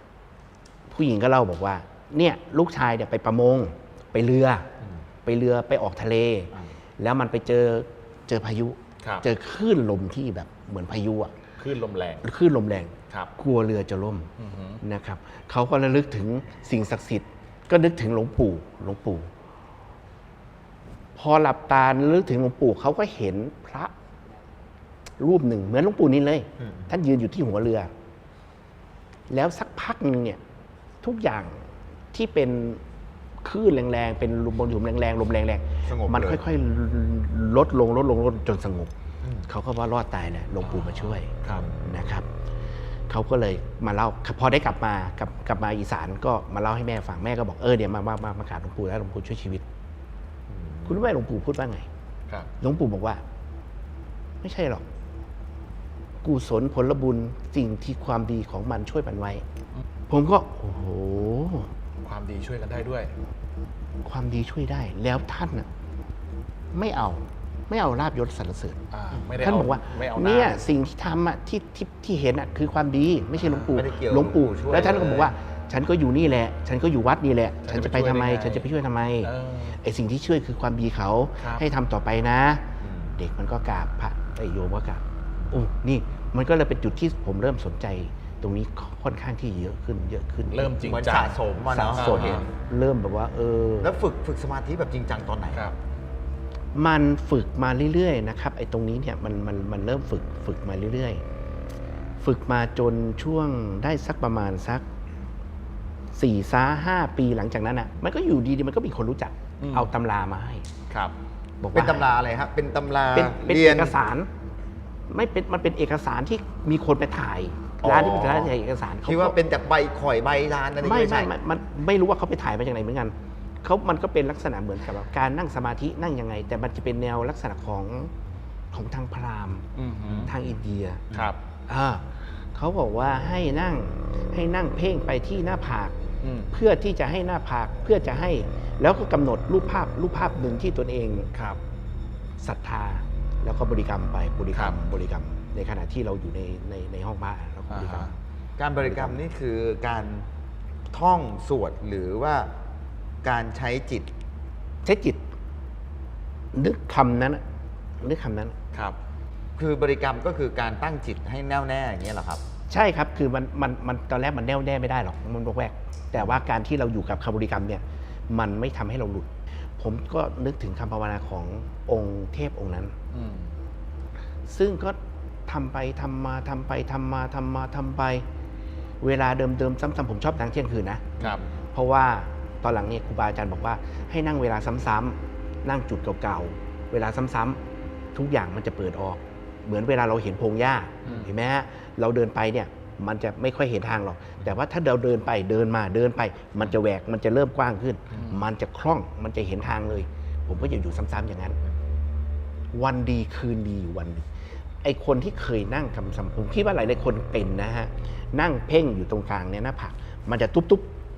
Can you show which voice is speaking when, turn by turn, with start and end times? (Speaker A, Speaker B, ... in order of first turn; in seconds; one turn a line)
Speaker A: 0.9-4.7
Speaker A: 5.2-11.3
Speaker B: 11.6-12.2
Speaker A: 12.2-14.3
Speaker B: 14.4-14.8
Speaker A: 14.8-19.3
Speaker A: 21.1-23.9
Speaker A: 25.2-27.9
Speaker C: 26.6-26.9
Speaker A: 29.3-30.4
Speaker A: 31.0-32.8
Speaker A: 33.4-38.9
Speaker C: 35.9-36.4
Speaker A: 39.5-42.3
Speaker B: 40.6-41.7
Speaker C: 41.4-41.8
Speaker A: 43.1-49.6
Speaker C: 50.5-51.0
Speaker A: 50.9-51.9
Speaker A: 52.6-53.2
Speaker A: 54.4-54.8
Speaker A: 56.2-59.4
Speaker A: 60.1-61.7
Speaker B: 62.0-63.1
Speaker A: 64.0-65.7
Speaker A: 66.7-68.8
Speaker B: 68.9-70.6
Speaker A: 69.4-82.6
Speaker B: 73.4-73.8
Speaker C: 73.7-75.3
Speaker B: 77.6-78.7
Speaker B: 79.2-79.8
Speaker C: 82.8-83.1
Speaker A: 83.2-90.8
Speaker B: 90.5-91.4
Speaker C: 90.8-92.4
Speaker A: 91.7-93.9
Speaker B: 91.9-92.5
Speaker C: 93.8-95.7
Speaker A: 96.7-101.2
Speaker A: 102.2-104.8
Speaker A: 106.1-110.7
Speaker B: 109.6-109.9
Speaker A: 111.6-112.1
Speaker C: 111.7-113.9
Speaker A: 113.1-114.3
Speaker A: 115.1-119.4
Speaker C: 117.8-118.5
Speaker C: 119.0-121.3
Speaker A: 120.8-128.1
Speaker A: 128.7-129.6
Speaker B: 129.7-130.3
Speaker C: 130.1-130.5
Speaker A: 130.2-131.1
Speaker B: 131.1-131.4
Speaker A: 131.7-135.9
Speaker B: 136.2-136.5
Speaker A: 136.5-141.3
Speaker B: 141.3-141.6
Speaker A: 142.4-148.1
Speaker B: 147.7-148.1
Speaker C: 148.6-150.3
Speaker A: 148.8-149.2
Speaker C: 150.9-152.5
Speaker C: 153.2-154.1
Speaker A: 154.8-155.2
Speaker A: 156.5-157.4
Speaker A: 158.0-158.5
Speaker C: 159.6-162.4
Speaker A: 162.7-172.9
Speaker B: 173.1-173.5
Speaker A: 174.5-178.2
Speaker A: 179.0-181.2
Speaker A: 181.7-187.6
Speaker A: 188.1-201.6
Speaker B: 191.0-191.3
Speaker B: 198.1-198.4
Speaker A: 202.7-204.2
Speaker A: 204.8-210.9